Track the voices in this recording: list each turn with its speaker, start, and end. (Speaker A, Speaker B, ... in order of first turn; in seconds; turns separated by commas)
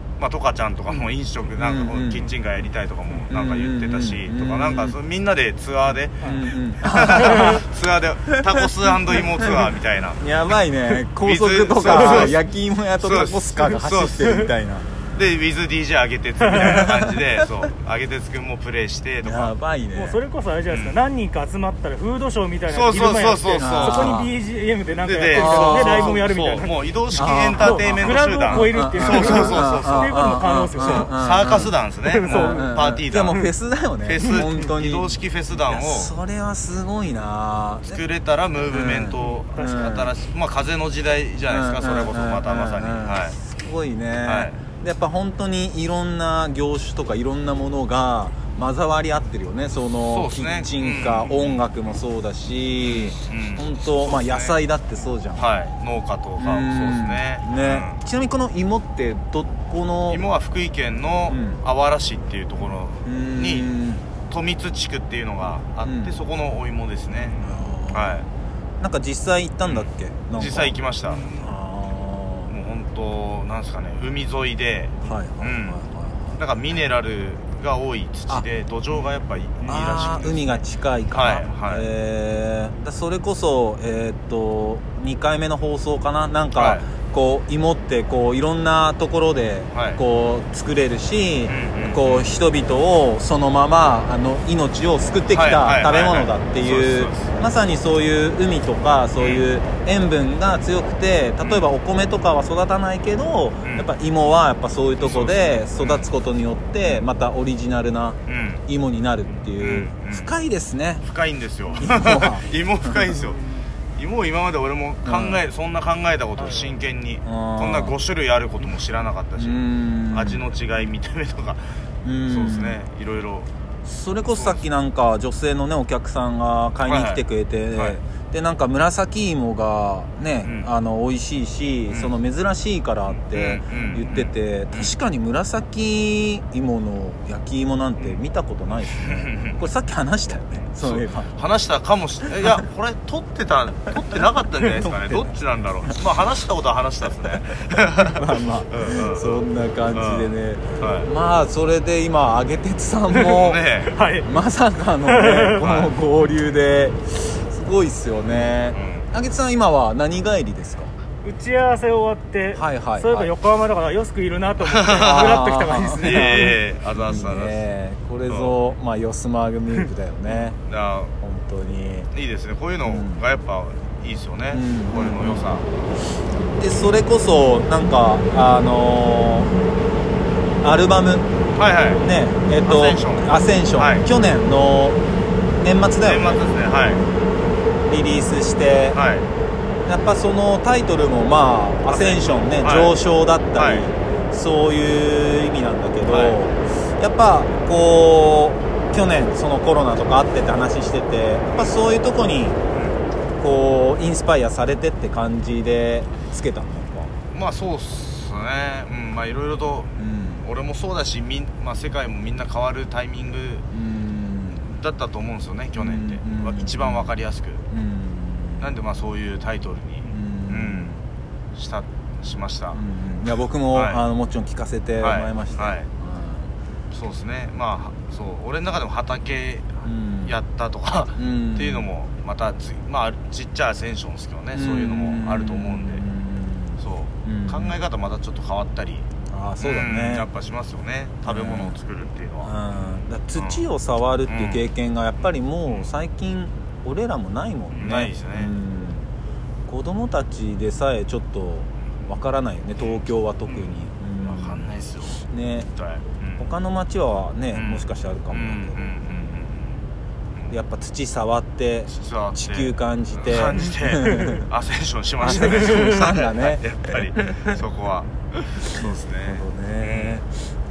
Speaker A: 0.2-10.2, Speaker B: 1.6-2.3, Speaker B: 3.3-5.0, Speaker B: 6.2-7.6, Speaker B: 10.2-14.9, Speaker A: 11.2-12.4, Speaker A: 13.0-14.4, Speaker A: 15.1-19.5, Speaker C: 16.5-16.9, Speaker B: 16.5-17.2, Speaker B: 19.2-20.2, Speaker C: 19.9-31.1, Speaker A: 20.7-21.0, Speaker A: 22.7-24.3, Speaker B: 23.6-24.3, Speaker A: 25.0-33.4, Speaker B: 25.3-26.2, Speaker B: 27.1-31.7, Speaker C: 32.1-32.8, Speaker B: 32.2-38.0, Speaker A: 34.1-36.1, Speaker A: 37.8-43.4, Speaker B: 38.7-40.1, Speaker C: 39.3-39.9, Speaker B: 41.5-55.5, Speaker A: 44.2-44.6, Speaker A: 50.1-51.6, Speaker A: 52.8-54.6, Speaker A: 55.4-58.0, Speaker B: 56.4-60.2, Speaker A: 60.1-63.7, Speaker B: 61.3-61.6, Speaker B: 63.0-64.0, Speaker A: 64.3-68.3, Speaker B: 65.8-66.2, Speaker B: 67.3-68.3, Speaker B: 68.8-72.5, Speaker A: 69.7-71.4, Speaker A: 72.5-75.8, Speaker B: 75.0-76.4, Speaker A: 76.4-81.9, Speaker B: 79.7-111.0, Speaker A: 86.5-86.8, Speaker A: 89.7-90.0, Speaker A: 91.5-92.4, Speaker A: 95.3-97.3, Speaker A: 99.2-99.4, Speaker A: 103.6-103.9, Speaker A: 105.0-106.1, Speaker A: 108.3-108.6, Speaker A: 109.6-110.3, Speaker A: 111.0-113.4, Speaker B: 111.8-113.0, Speaker C: 113.4-113.7, Speaker A: 114.0-119.6, Speaker B: 115.0-115.4, Speaker C: 116.4-116.8, Speaker B: 117.2-117.9, Speaker B: 119.4-120.5, Speaker A: 120.1-121.6, Speaker B: 122.0-122.8, Speaker A: 122.2-123.5, Speaker B: 123.8-141.3, Speaker A: 124.3-124.6, Speaker A: 126.9-127.2, Speaker A: 130.4-130.7, Speaker A: 131.9-132.2, Speaker A: 133.1-134.9, Speaker A: 138.9-139.6, Speaker A: 140.7-151.1, Speaker B: 144.8-145.3, Speaker B: 148.0-153.7, Speaker A: 153.2-153.9, Speaker C: 153.9-154.3, Speaker B: 154.2-160.9, Speaker C: 155.1-155.7, Speaker A: 155.6-155.9, Speaker A: 158.7-159.1, Speaker C: 161.2-166.6, Speaker B: 162.5-163.3, Speaker A: 164.6-165.4, Speaker B: 165.0-170.6, Speaker A: 166.0-167.6, Speaker A: 168.3-168.6, Speaker A: 170.3-171.1, Speaker B: 171.2-172.1, Speaker A: 172.1-175.7, Speaker B: 172.8-173.2, Speaker B: 174.5-175.5, Speaker B: 176.6-179.6, Speaker B: 180.6-181.3, Speaker A: 181.5-182.1, Speaker B: 182.0-185.0, Speaker A: 182.6-184.1, Speaker B: 185.6-186.4, Speaker A: 186.0-187.1, Speaker B: 187.8-189.0, Speaker A: 188.9-189.3, Speaker B: 189.9-202.6, Speaker A: 191.9-192.9, Speaker A: 193.6-193.9, Speaker A: 196.1-196.4, Speaker A: 201.5-201.8, Speaker A: 202.7-203.0, Speaker B: 203.4-207.1, Speaker A: 207.3-213.7, Speaker B: 210.0-210.4, Speaker B: 213.7-214.7, Speaker A: 214.6-217.7, Speaker B: 215.8-217.1, Speaker B: 217.7-218.8, Speaker A: 218.6-220.9, Speaker B: 220.1-221.0, Speaker A: 221.5-222.8, Speaker B: 222.7-226.5, Speaker A: 223.7-224.0, Speaker A: 225.0-225.9, Speaker A: 226.9-236.0, Speaker B: 229.8-230.3, Speaker B: 231.2-231.9, Speaker B: 234.5-237.8, Speaker A: 236.8-239.1, Speaker B: 239.3-240.3, Speaker A: 239.6-243.7, Speaker B: 241.2-241.8, Speaker B: 242.4-249.1, Speaker A: 244.3-244.7, Speaker A: 247.7-248.5, Speaker B: 249.7-254.7, Speaker A: 252.8-256.5, Speaker B: 255.2-255.7, Speaker B: 256.4-258.8, Speaker A: 257.5-259.8, Speaker B: 260.5-264.4, Speaker A: 261.9-270.2, Speaker C: 264.1-264.4, Speaker B: 265.2-267.5, Speaker C: 265.4-266.1, Speaker B: 268.6-270.3